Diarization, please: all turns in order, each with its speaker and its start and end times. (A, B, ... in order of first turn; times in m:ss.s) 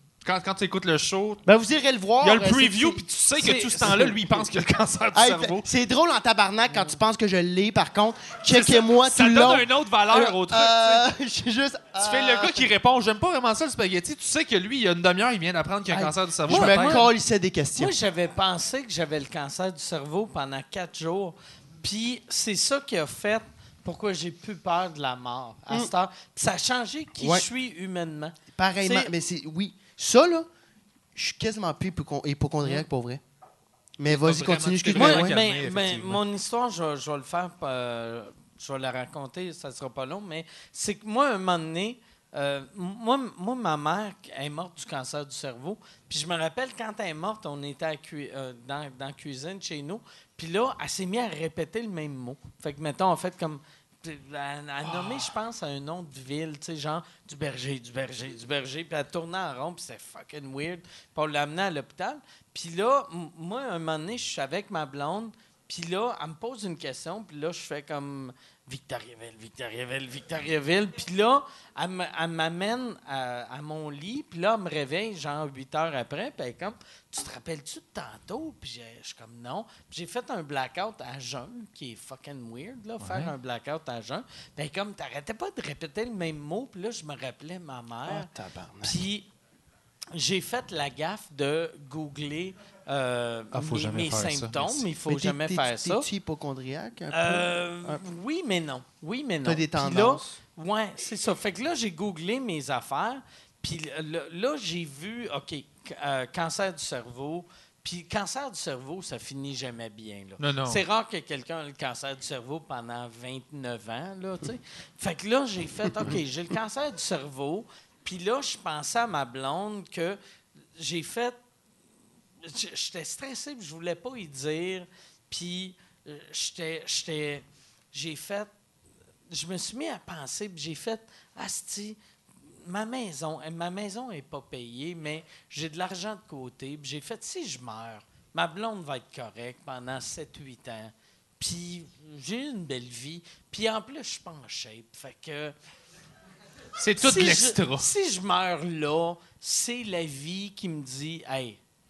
0:00.2-0:01.4 A
0:01.4-0:04.4 B
0:02.2-0:05.7 A
0:05.1-0:12.7 B
0:08.5-0:11.1 A
0:12.0-0:17.0 A
0:15.9-0:17.9 B
0:16.5-0:17.1 C
0:17.8-0:29.1 C
0:27.2-0:27.4 B
0:28.5-0:30.5 B
0:31.1-0:33.2 B
0:34.0-0:35.4 B
0:34.1-0:36.2 A
0:34.9-1:28.3 C
1:23.0-1:23.3 A
1:28.0-1:29.0 B
1:28.8-1:29.3 C
1:30.1-1:36.1 C
1:33.5-1:34.9 A
1:35.1-1:38.0 B
1:37.1-2:00.2 C
1:39.4-1:40.4 B
1:50.4-1:50.8 A
2:00.8-2:01.4 C
2:02.4-2:08.5 C
2:09.3-2:12.0 C
2:12.6-2:25.5 C
2:26.8-2:27.9 A
2:27.0-2:31.6 C